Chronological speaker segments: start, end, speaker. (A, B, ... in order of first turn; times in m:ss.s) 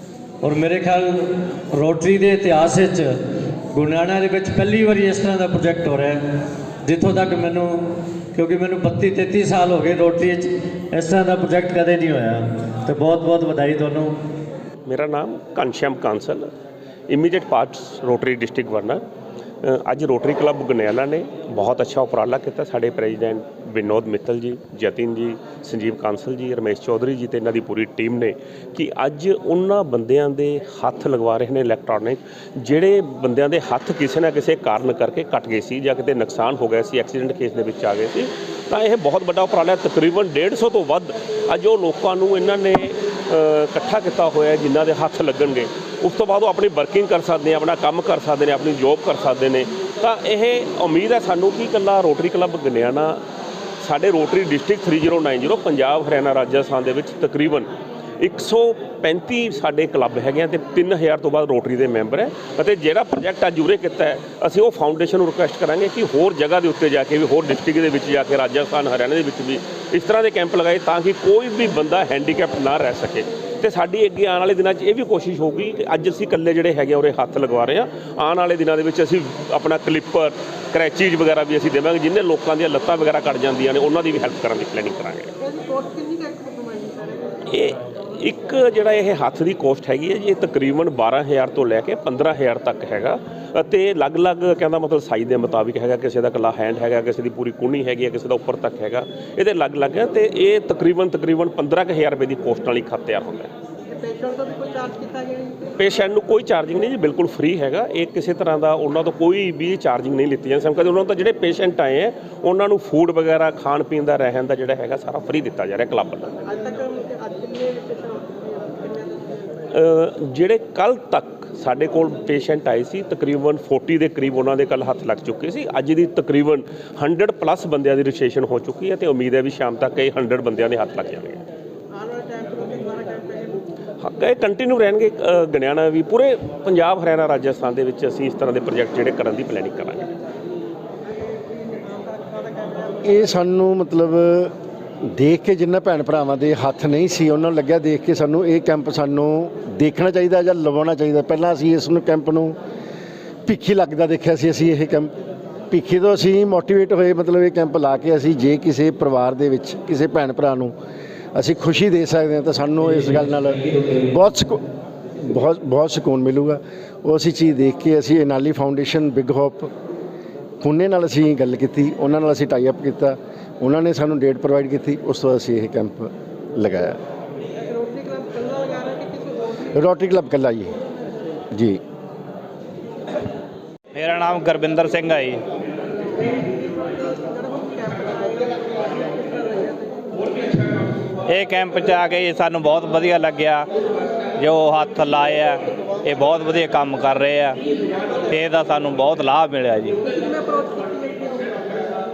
0:00.4-0:03.1 A
0:03.7-0:06.2 A
0:06.8-0:07.8 A
0:08.4-0:14.1 A
0:14.9-0:16.5 B
0:17.1-0:19.0 B
0:19.6-0:53.2 B
0:53.8-1:25.3 B
1:25.4-1:27.4 C
1:27.5-1:43.5 B
1:43.9-1:45.6 C
1:45.8-1:56.4 B
1:56.5-1:59.5 C
1:59.8-2:11.4 B
2:11.9-2:13.6 C
2:14.0-2:20.1 B
2:21.1-2:23.3 C
2:23.0-2:24.5 D
2:25.1-2:32.6 D
2:33.5-2:35.1 D
2:35.7-2:40.7 D
2:41.4-2:44.6 D
2:45.2-2:49.7 D
2:50.6-2:57.0 D
2:57.6-2:59.7 C
2:59.8-3:00.7 D
3:03.9-3:05.4 E
3:06.2-3:10.4 C
3:11.3-3:13.7 E
3:14.4-3:17.6 E
3:18.3-3:20.0 E
3:20.1-3:21.8 C